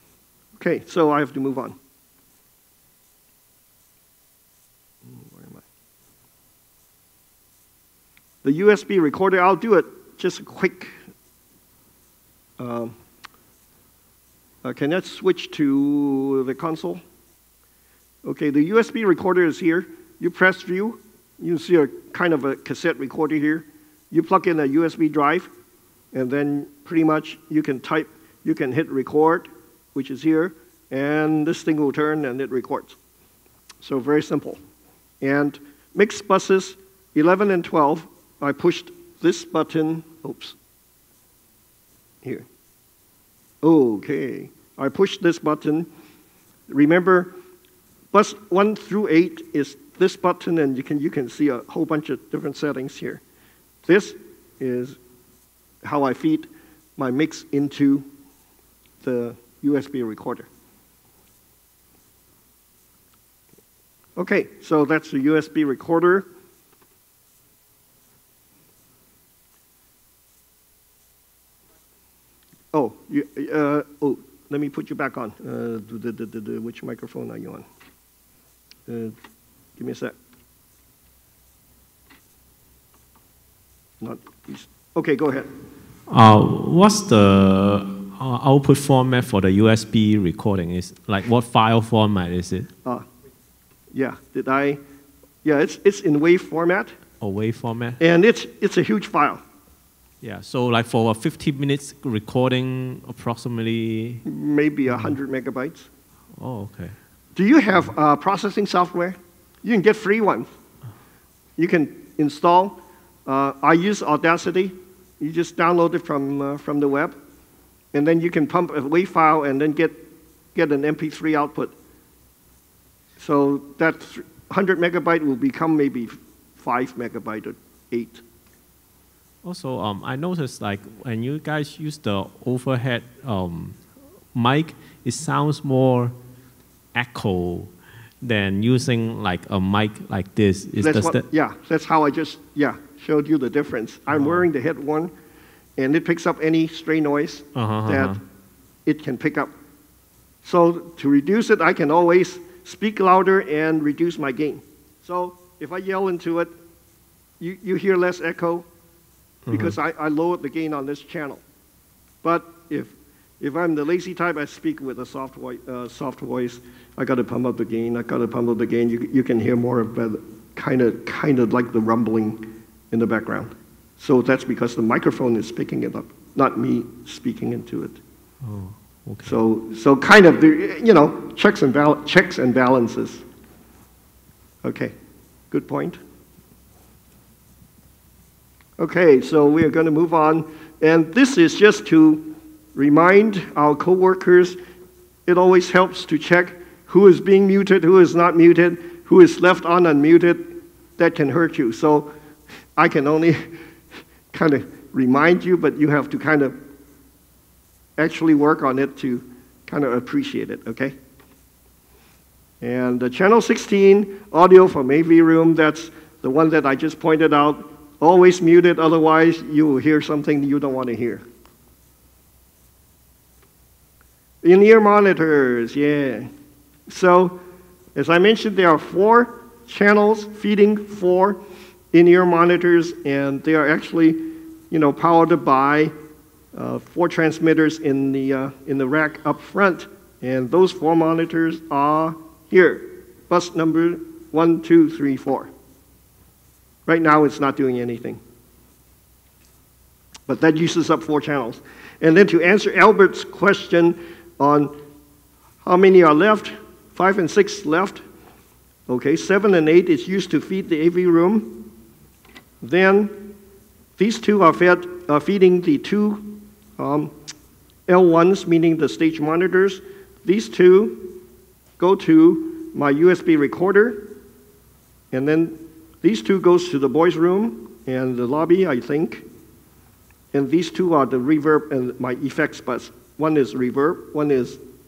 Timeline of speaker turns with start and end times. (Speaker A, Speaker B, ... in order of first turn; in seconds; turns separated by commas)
Speaker A: 0.6-1.8, Speaker A: 5.1-5.6, Speaker A: 8.4-10.9, Speaker A: 12.6-13.0, Speaker A: 14.6-17.0, Speaker A: 18.2-25.5, Speaker A: 26.1-33.0, Speaker A: 33.8-34.6, Speaker A: 35.2-40.6, Speaker A: 43.6-45.9, Speaker A: 46.7-47.4, Speaker A: 48.1-53.2, Speaker A: 53.9-55.0, Speaker A: 55.8-58.1, Speaker A: 59.0-60.5, Speaker A: 64.2-66.3, Speaker A: 72.7-77.7, Speaker A: 78.9-79.2, Speaker A: 79.8-80.2, Speaker A: 84.0-85.5, Speaker B: 86.1-92.7, Speaker A: 93.9-94.8, Speaker A: 95.4-96.9, Speaker B: 97.2-98.0, Speaker A: 98.0-99.4, Speaker B: 100.2-104.2, Speaker A: 104.3-105.9, Speaker B: 106.3-107.0, Speaker A: 107.4-110.5, Speaker A: 111.6-117.2, Speaker A: 117.9-120.0, Speaker A: 120.5-121.8, Speaker A: 123.2-128.2, Speaker B: 129.4-133.8, Speaker B: 134.3-136.2, Speaker B: 136.9-141.3, Speaker A: 140.8-145.1, Speaker B: 144.1-144.5, Speaker A: 145.8-148.2, Speaker B: 147.6-148.2, Speaker A: 148.9-149.5, Speaker A: 150.4-156.5, Speaker A: 157.4-158.7, Speaker B: 159.5-159.8, Speaker A: 159.5-161.4, Speaker A: 162.2-178.0, Speaker B: 178.4-179.4, Speaker A: 179.3-183.2, Speaker A: 184.6-184.9, Speaker A: 185.5-186.0, Speaker A: 188.8-194.6, Speaker A: 195.3-202.1, Speaker A: 202.8-203.4, Speaker A: 204.3-206.6, Speaker A: 208.0-211.0, Speaker A: 212.6-221.2, Speaker A: 224.4-226.3, Speaker A: 226.9-227.4, Speaker A: 227.9-231.4, Speaker A: 231.9-235.9, Speaker A: 236.5-245.5, Speaker A: 246.9-248.2, Speaker A: 250.3-254.7, Speaker A: 255.6-258.0, Speaker A: 258.9-261.7, Speaker A: 262.6-263.3, Speaker A: 264.0-267.1, Speaker A: 267.9-271.2, Speaker A: 271.8-274.1, Speaker A: 275.1-279.2, Speaker A: 280.3-284.6